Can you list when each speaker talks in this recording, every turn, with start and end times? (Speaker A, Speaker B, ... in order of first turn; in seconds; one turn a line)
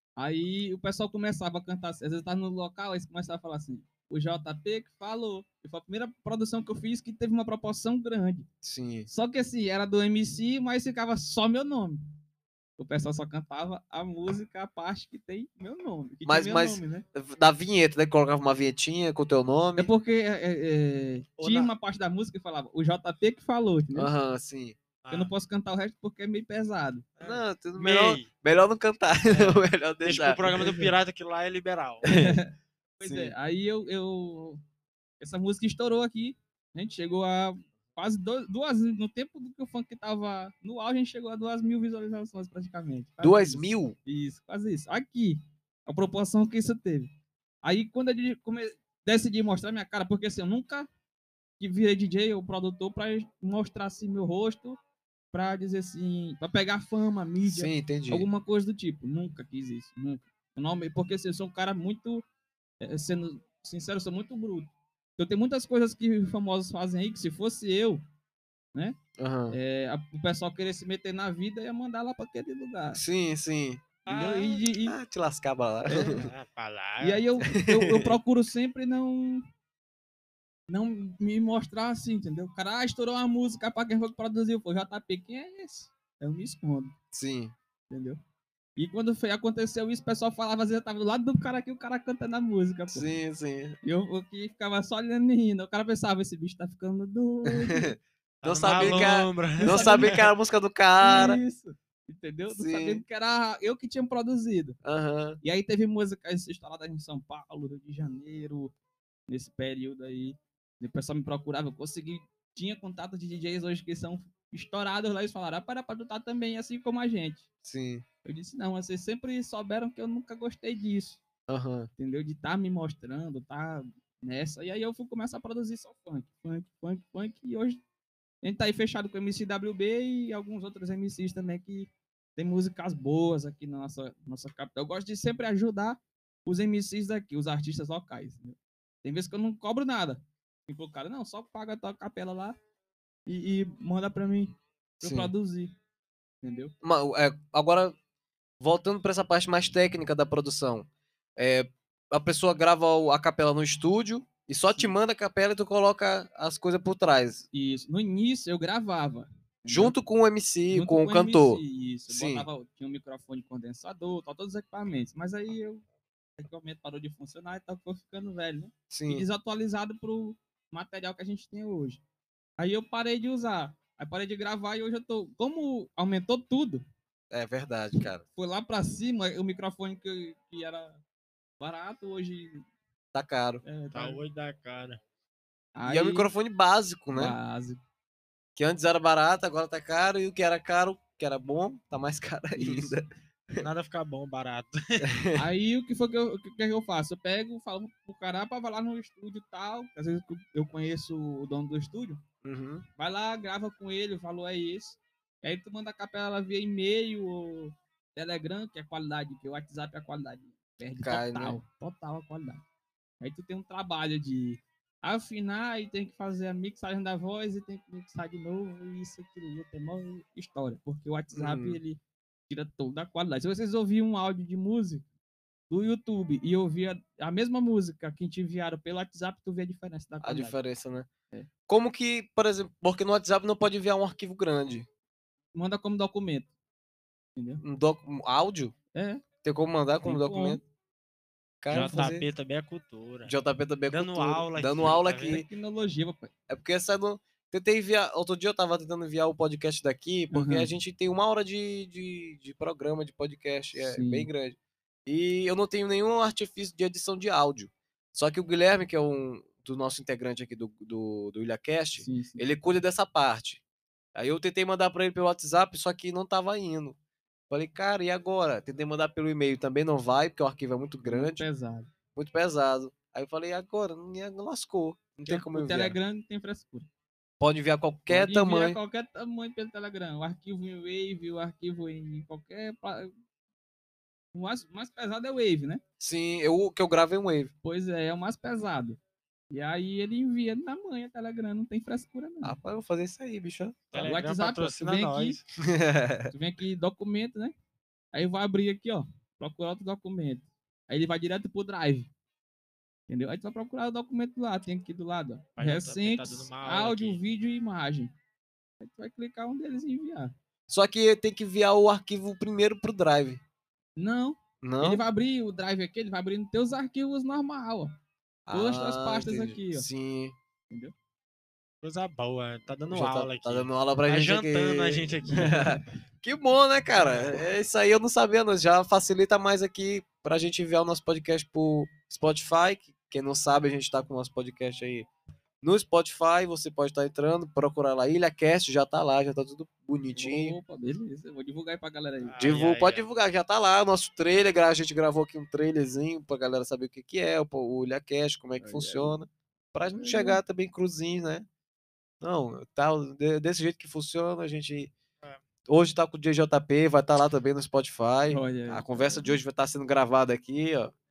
Speaker A: 0.2-8.5
Speaker B: 8.6-9.1
Speaker A: 9.1-12.0
Speaker A: 12.8-17.0
Speaker B: 16.2-19.9
Speaker A: 19.8-24.1
Speaker C: 21.4-21.7
Speaker B: 23.9-24.8
Speaker C: 25.0-25.3
Speaker A: 25.1-27.1
Speaker C: 27.2-28.3
Speaker B: 27.2-30.4
Speaker C: 29.2-32.1
Speaker A: 30.5-30.9
Speaker B: 32.1-32.4
Speaker A: 32.1-34.6
Speaker B: 33.0-33.3
Speaker A: 35.2-47.1
Speaker B: 43.2-44.0
Speaker A: 47.6-50.9
Speaker A: 51.6-54.8
Speaker A: 55.3-62.2
Speaker B: 57.4-58.3
Speaker A: 62.8-68.0
Speaker B: 69.2-69.6
Speaker A: 69.5-73.0
Speaker B: 72.9-73.8
Speaker C: 74.0-74.6
Speaker A: 74.1-75.0
Speaker B: 74.8-76.3
Speaker A: 75.9-76.2
Speaker C: 75.9-77.2
Speaker A: 77.0-79.5
Speaker B: 77.4-78.2
Speaker A: 80.7-86.9
Speaker B: 87.1-87.5
Speaker A: 87.9-88.2
Speaker A: 88.8-93.1
Speaker B: 92.9-93.8
Speaker A: 93.8-97.9
Speaker B: 97.5-101.4
Speaker C: 98.4-100.2
Speaker A: 98.8-99.0
Speaker A: 99.6-100.2
Speaker A: 101.0-104.8
Speaker B: 102.5-103.0
Speaker B: 104.8-105.4
Speaker A: 105.4-108.7
Speaker A: 109.3-117.5
Speaker B: 117.6-118.0
Speaker A: 118.2-121.2
Speaker B: 121.5-121.9
Speaker A: 122.0-127.8
Speaker A: 128.4-142.6
Speaker A: 143.3-145.7
Speaker B: 145.0-145.3
Speaker A: 146.4-146.7
Speaker B: 146.8-147.9
Speaker B: 148.6-157.4
Speaker A: 157.5-159.9
Speaker B: 159.7-162.5
Speaker A: 160.7-165.8
Speaker A: 166.4-172.0
Speaker B: 168.9-169.2
Speaker A: 172.6-176.8
Speaker B: 177.3-178.2
Speaker A: 178.0-181.0
Speaker A: 181.6-182.6
Speaker B: 183.1-183.6
Speaker A: 183.6-184.2
Speaker C: 183.9-185.0
Speaker A: 185.8-186.3
Speaker B: 185.8-187.4
Speaker A: 187.1-187.8
Speaker B: 188.6-193.6
Speaker A: 192.6-192.9
Speaker C: 193.6-195.0
Speaker B: 195.0-195.4
Speaker A: 195.4-202.2
Speaker B: 202.4-202.8
Speaker A: 203.0-212.6
Speaker B: 211.0-211.6
Speaker A: 213.2-225.0
Speaker B: 221.3-221.8
Speaker A: 225.7-230.6
Speaker B: 230.2-231.1
Speaker B: 231.7-234.9
Speaker A: 235.5-236.5
Speaker A: 237.4-237.6
Speaker B: 237.6-238.7
Speaker A: 238.9-239.2
Speaker B: 239.4-240.6
Speaker A: 240.0-240.6
Speaker B: 241.6-242.2
Speaker C: 241.7-243.3
Speaker B: 243.2-245.4
Speaker C: 243.9-245.4
Speaker A: 245.2-246.3
Speaker B: 246.5-263.6
Speaker A: 250.3-250.7
Speaker A: 253.8-254.3
Speaker A: 262.0-262.4
Speaker B: 264.1-267.0
Speaker B: 267.5-271.4
Speaker A: 271.1-271.9
Speaker B: 272.1-276.0
Speaker A: 275.3-276.9
Speaker B: 277.4-278.8
Speaker A: 278.1-283.1
Speaker A: 284.3-285.8
Speaker B: 286.0-287.5
Speaker A: 287.6-289.0
Speaker A: 289.5-292.6
Speaker B: 292.4-294.1
Speaker C: 293.9-295.4
Speaker A: 294.0-295.4
Speaker B: 295.6-296.3
Speaker A: 296.3-297.5
Speaker A: 298.1-302.1
Speaker A: 303.1-308.1
Speaker C: 305.6-307.2
Speaker A: 308.8-310.3
Speaker B: 310.7-313.4
Speaker A: 314.0-317.9
Speaker B: 314.6-315.0
Speaker B: 318.5-320.4
Speaker A: 318.5-319.9
Speaker C: 321.8-325.7
Speaker B: 322.9-335.1
Speaker A: 325.3-325.8
Speaker C: 326.9-327.4
Speaker B: 335.6-340.6
Speaker A: 340.1-342.4
Speaker C: 342.2-343.1
Speaker B: 342.4-351.4
Speaker A: 348.6-349.2
Speaker A: 349.9-350.4
Speaker B: 352.2-354.9
Speaker B: 355.7-360.9
Speaker A: 358.3-359.4